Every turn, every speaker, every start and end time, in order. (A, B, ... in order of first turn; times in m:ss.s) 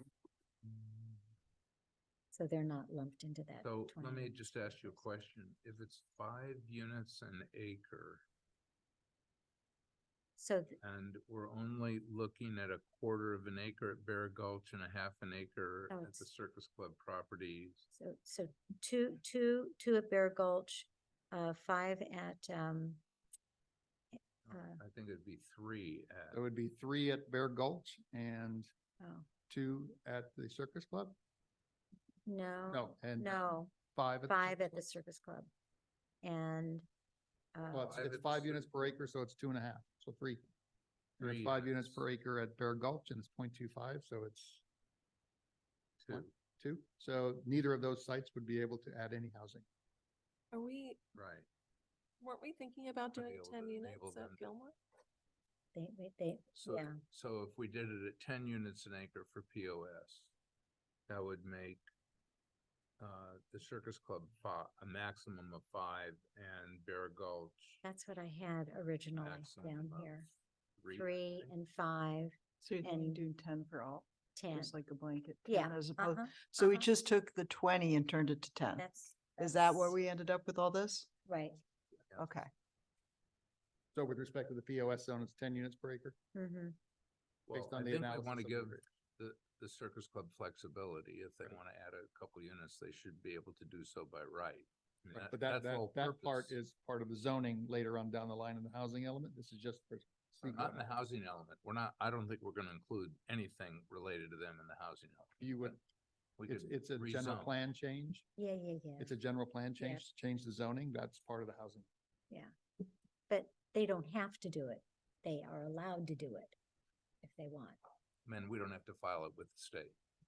0:02.3-0:05.0 A
0:03.6-0:08.2 B
0:10.4-0:10.8 A
0:10.8-0:17.9 B
0:15.9-0:16.3 A
0:17.9-0:23.0 A
0:24.5-0:26.4 B
0:24.5-0:24.8 A
0:26.3-0:28.7 C
0:29.0-0:29.3 A
0:29.5-0:31.2 C
0:32.3-0:33.7 A
0:32.7-0:34.8 C
0:34.3-0:35.5 A
0:36.2-0:36.9 A
0:37.5-0:38.0 A
0:37.7-0:40.4 C
0:37.7-0:38.7 B
0:41.2-0:42.0 B
0:41.2-0:44.6 C
0:46.0-0:46.3 B
0:46.1-0:49.6 C
0:50.5-0:51.0 D
0:51.2-0:51.5 B
0:52.2-0:54.8 D
0:53.1-0:54.5 B
0:55.7-0:57.0 A
0:56.6-1:00.3 B
1:01.1-1:01.8 B
1:03.0-1:07.8 B
1:07.8-1:10.3 A
1:09.2-1:10.3 B
1:10.8-1:11.5 B
1:10.9-1:13.2 A
1:12.6-1:18.8 E
1:14.4-1:14.7 A
1:15.5-1:16.9 A
1:18.8-1:20.0 A
1:19.4-1:21.1 E
1:21.3-1:21.6 A
1:22.2-1:22.5 E
1:24.0-1:26.2 C
1:26.3-1:26.8 A
1:27.5-1:36.6 B
1:27.5-1:28.8 C
1:35.1-1:41.0 C
1:40.4-1:45.8 B
1:45.4-1:45.8 C
1:46.4-1:47.6 B
1:46.5-1:48.3 C
1:48.4-1:49.2 A
1:49.0-1:51.9 C
1:53.3-1:56.6 A
1:57.2-1:57.8 A
1:58.3-2:00.0 B